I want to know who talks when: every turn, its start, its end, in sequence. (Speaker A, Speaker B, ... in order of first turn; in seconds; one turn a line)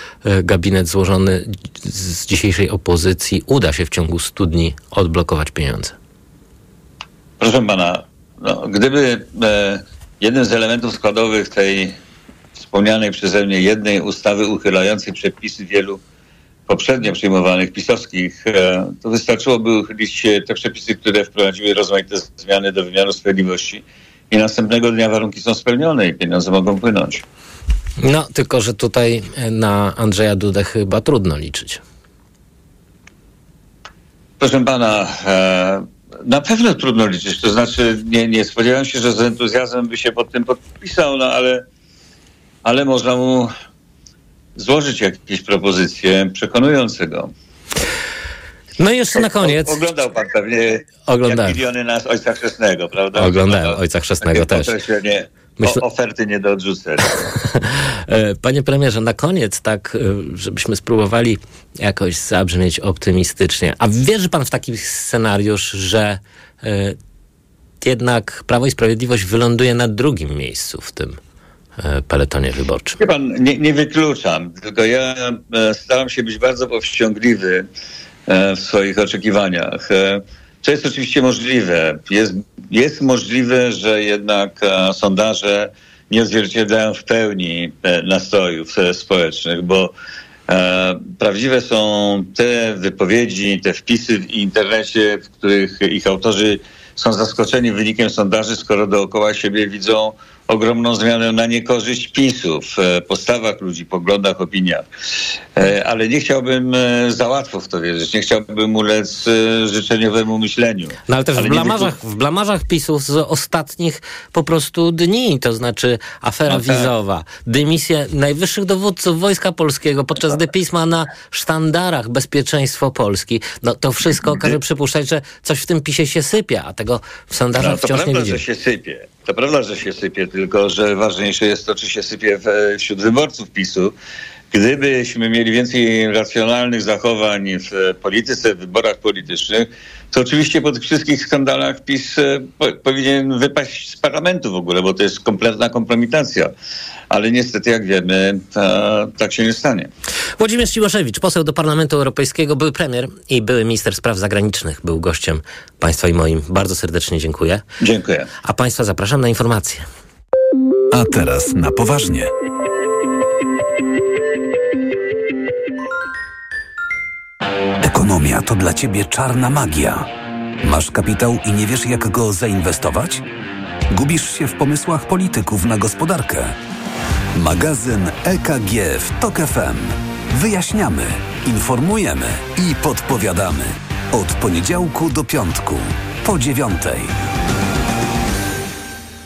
Speaker A: 0.2-6.0
Speaker B: 7.4-12.0
Speaker B: 12.6-16.0
Speaker B: 16.7-27.2
Speaker A: 28.0-31.8
Speaker B: 34.4-41.6
Speaker B: 42.6-43.5
Speaker B: 44.5-47.3
Speaker A: 48.8-49.8
Speaker B: 49.1-57.2
Speaker A: 51.1-51.6
Speaker A: 53.1-54.7
Speaker A: 57.2-67.0
Speaker A: 67.8-71.2
Speaker A: 71.8-73.0
Speaker B: 73.0-77.7
Speaker B: 78.3-89.9
Speaker B: 90.5-104.8
Speaker B: 105.5-111.9
Speaker A: 111.1-128.4
Speaker B: 116.5-116.8
Speaker B: 127.6-133.9
Speaker B: 134.5-146.5
Speaker B: 147.1-149.9
Speaker A: 150.4-157.6
Speaker B: 157.8-158.3
Speaker A: 158.4-159.8
Speaker C: 160.9-162.3
Speaker C: 167.8-170.1
Speaker C: 170.6-173.2
Speaker C: 173.9-176.5
Speaker C: 177.3-187.1